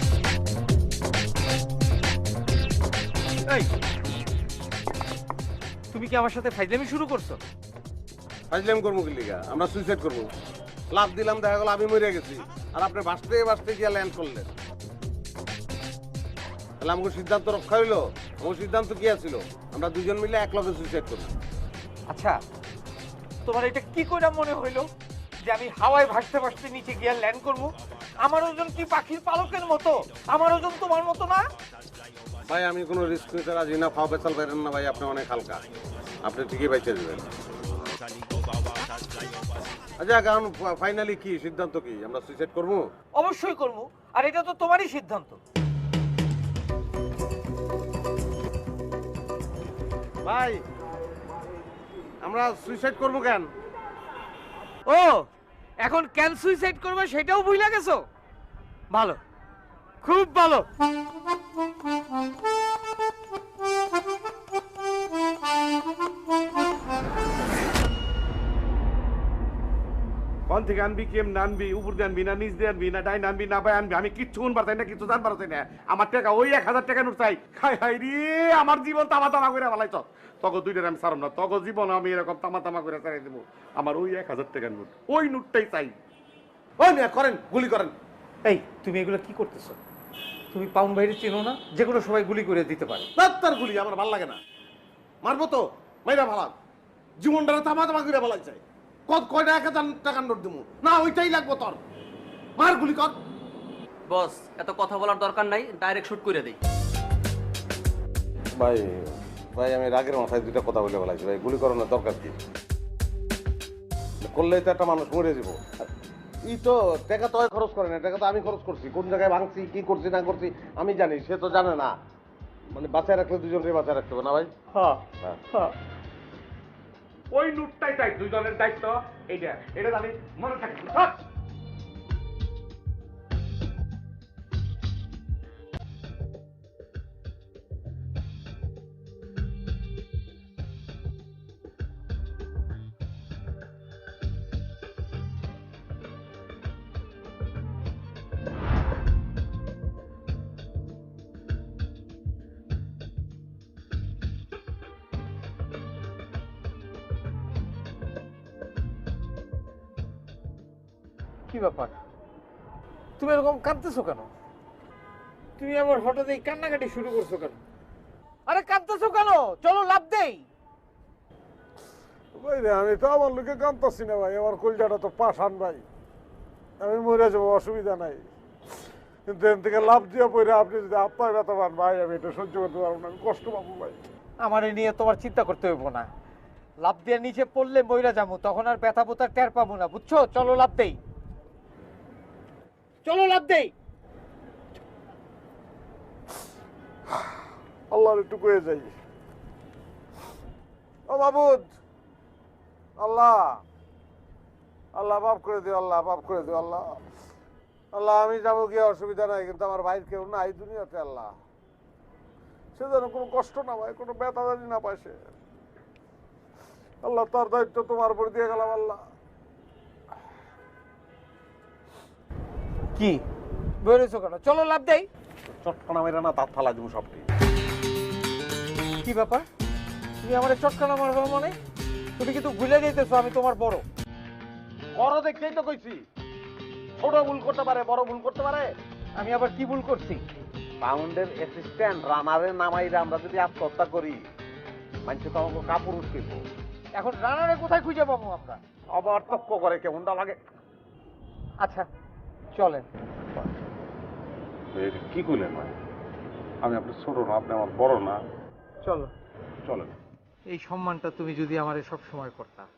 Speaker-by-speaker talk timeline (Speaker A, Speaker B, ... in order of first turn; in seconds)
Speaker A: 5.9-7.4, 22.1-22.4, 23.4-24.9, 25.4-31.4, 43.1-45.4, 54.9-55.2, 55.8-58.0, 58.9-59.2, 60.0-60.7, 88.4-89.8, 90.5-93.1, 124.7-125.7, 161.5-161.9, 163.2-164.3, 165.6-167.6, 168.5-170.5, 184.4-186.1, 186.8-191.0, 193.0-193.7, 223.0-223.2, 223.8-225.1, 229.0-229.5, 230.2-231.6, 232.2-233.8, 239.2-240.2, 246.9-248.6, 251.6-251.9, 252.5-252.9, 258.8-259.1, 260.5-262.7
Speaker B: 8.5-10.3, 10.9-14.5, 16.8-21.3, 32.5-35.6, 36.2-37.2, 40.0-42.9, 50.2-50.6, 52.2-53.5, 86.8-87.9, 93.2-94.4, 95.2-96.5, 97.2-101.8, 102.6-103.2, 108.6-112.4, 114.2-115.6, 116.5-121.9, 122.7-124.5, 225.6-227.2, 235.0-236.0, 237.0-238.7, 240.8-244.2, 245.1-246.4, 249.8-250.1
Speaker C: 70.5-85.9, 127.3-131.2
Speaker D: 104.1-106.6
Speaker E: 172.3-175.8, 176.8-178.3, 179.3-184.0, 197.9-198.9, 201.1-201.7, 203.0-203.6, 204.9-207.0, 207.9-211.3, 212.8-215.2, 217.0-219.0, 248.9-250.0, 254.8-255.3, 256.7-257.4